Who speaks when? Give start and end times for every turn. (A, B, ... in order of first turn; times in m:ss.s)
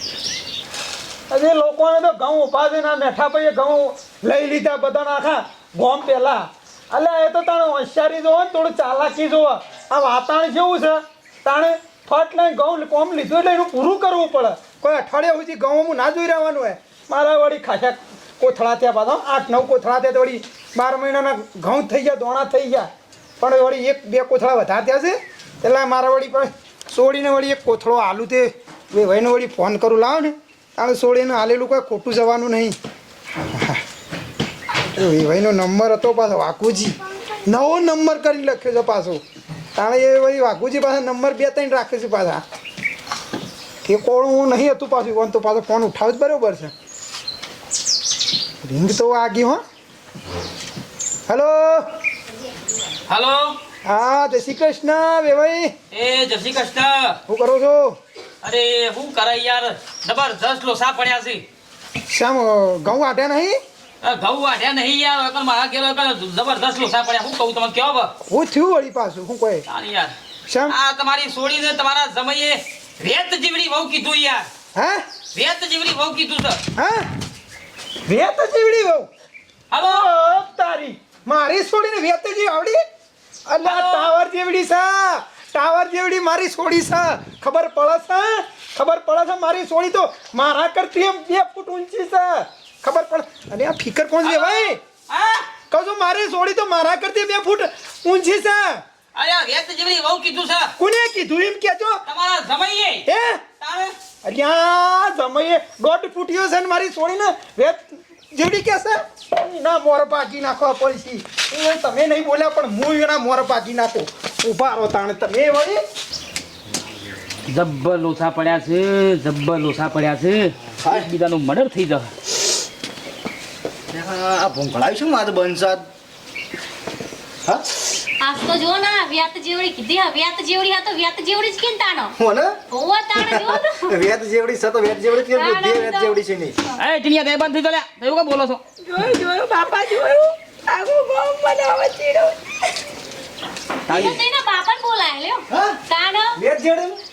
0:01.3-0:22.9 A
0:23.4-0:32.8 A
0:33.6-0:33.8 A
0:35.0-0:39.2 A
0:39.8-0:42.4 A
0:43.8-0:46.7 A
0:48.6-0:49.6 A
0:51.3-0:51.9 A
0:53.1-0:53.6 B
0:53.8-0:55.7 A
0:55.9-0:57.2 B
0:57.3-0:58.0 A
0:58.4-1:01.4 B
1:02.1-1:03.6 A
1:04.0-1:08.1 B
1:08.2-1:09.6 A
1:09.7-1:10.1 B
1:10.5-1:10.8 A
1:10.7-1:14.5 B
1:14.8-1:15.0 A
1:15.4-1:16.6 B
1:16.8-1:17.1 A
1:18.1-1:19.1 A
1:19.7-1:20.1 B
1:19.8-1:22.8 A
1:23.5-1:34.8 A
1:23.6-1:24.1 B
1:34.2-1:35.4 B
1:35.7-1:38.8 A
1:39.2-1:40.7 B
1:40.8-1:42.0 A
1:42.1-1:43.1 B
1:43.1-1:43.4 A
1:43.6-1:43.9 B
1:44.2-1:55.8 A
1:57.5-2:02.1 B
2:03.9-2:05.9 C
2:08.2-2:12.1 D
2:12.2-2:12.6 C
2:12.7-2:14.0 D
2:13.2-2:16.6 C
2:15.3-2:16.2 D
2:16.8-2:18.6 B
2:18.8-2:22.4 E
2:23.9-2:24.2 B
2:23.9-2:26.4 D
2:26.5-2:26.9 A